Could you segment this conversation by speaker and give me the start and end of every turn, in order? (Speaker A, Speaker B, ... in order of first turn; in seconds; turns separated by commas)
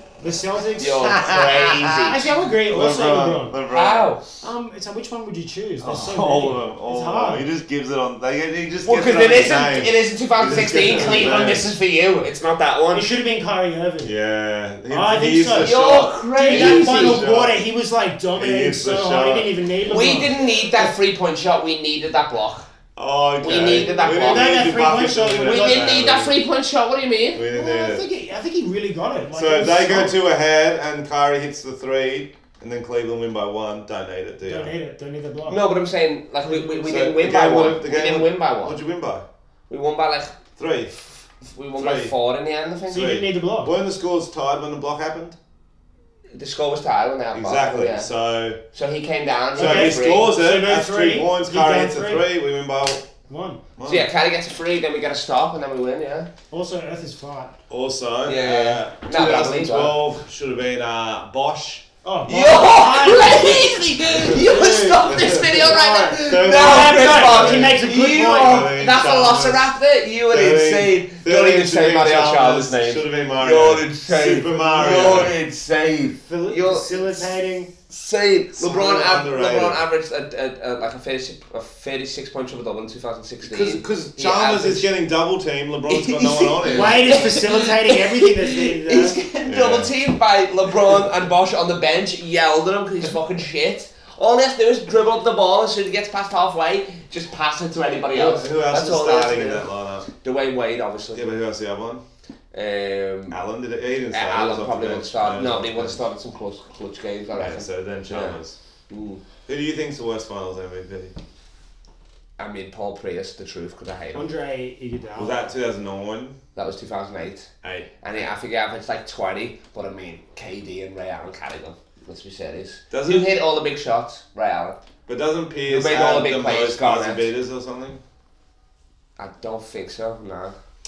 Speaker A: 0.2-3.6, Speaker B: 0.8-2.3, Speaker C: 1.1-4.2, Speaker B: 3.7-4.2, Speaker A: 4.4-7.5, Speaker C: 5.8-11.7, Speaker B: 8.8-13.1, Speaker A: 10.7-11.7, Speaker A: 12.9-14.1, Speaker C: 14.0-17.6, Speaker A: 14.9-15.8, Speaker B: 15.5-17.2, Speaker A: 16.3-20.9, Speaker C: 18.3-19.5, Speaker B: 19.8-22.7, Speaker C: 22.9-26.3, Speaker B: 23.4-24.6, Speaker A: 23.6-25.9, Speaker B: 25.4-27.4, Speaker C: 27.3-28.0, Speaker A: 27.5-30.2, Speaker C: 29.3-34.7, Speaker A: 34.5-35.6, Speaker B: 35.5-38.8, Speaker A: 36.4-36.9, Speaker C: 36.9-39.2, Speaker B: 39.7-40.4, Speaker C: 40.6-41.0, Speaker B: 41.4-43.1, Speaker C: 41.8-42.1, Speaker A: 42.9-43.7, Speaker C: 42.9-45.4, Speaker B: 46.3-48.1, Speaker C: 47.3-48.6, Speaker B: 48.7-50.3, Speaker A: 49.5-52.2, Speaker C: 49.5-53.1, Speaker A: 53.3-53.6, Speaker C: 53.8-54.1, Speaker B: 53.8-56.3, Speaker A: 56.5-57.5, Speaker C: 57.7-61.8, Speaker B: 58.2-60.0, Speaker A: 62.0-63.8, Speaker B: 62.2-77.3, Speaker C: 64.1-69.7, Speaker A: 64.3-68.7, Speaker C: 70.3-75.3, Speaker A: 76.3-77.7, Speaker B: 77.9-84.9, Speaker C: 78.5-79.8, Speaker C: 83.4-87.2, Speaker B: 85.9-101.3, Speaker A: 86.7-89.2, Speaker C: 89.4-89.9, Speaker C: 98.1-100.0, Speaker C: 101.1-102.0, Speaker B: 102.5-103.3, Speaker C: 103.3-106.0, Speaker B: 104.1-108.4, Speaker C: 107.3-108.6, Speaker B: 108.9-109.2, Speaker C: 109.5-111.1, Speaker B: 112.4-114.3, Speaker A: 114.1-115.5, Speaker C: 115.2-116.4, Speaker B: 116.5-117.5, Speaker C: 117.6-117.9, Speaker B: 118.0-124.8, Speaker C: 122.9-123.3, Speaker C: 125.1-128.0, Speaker B: 125.7-127.3, Speaker B: 129.2-130.6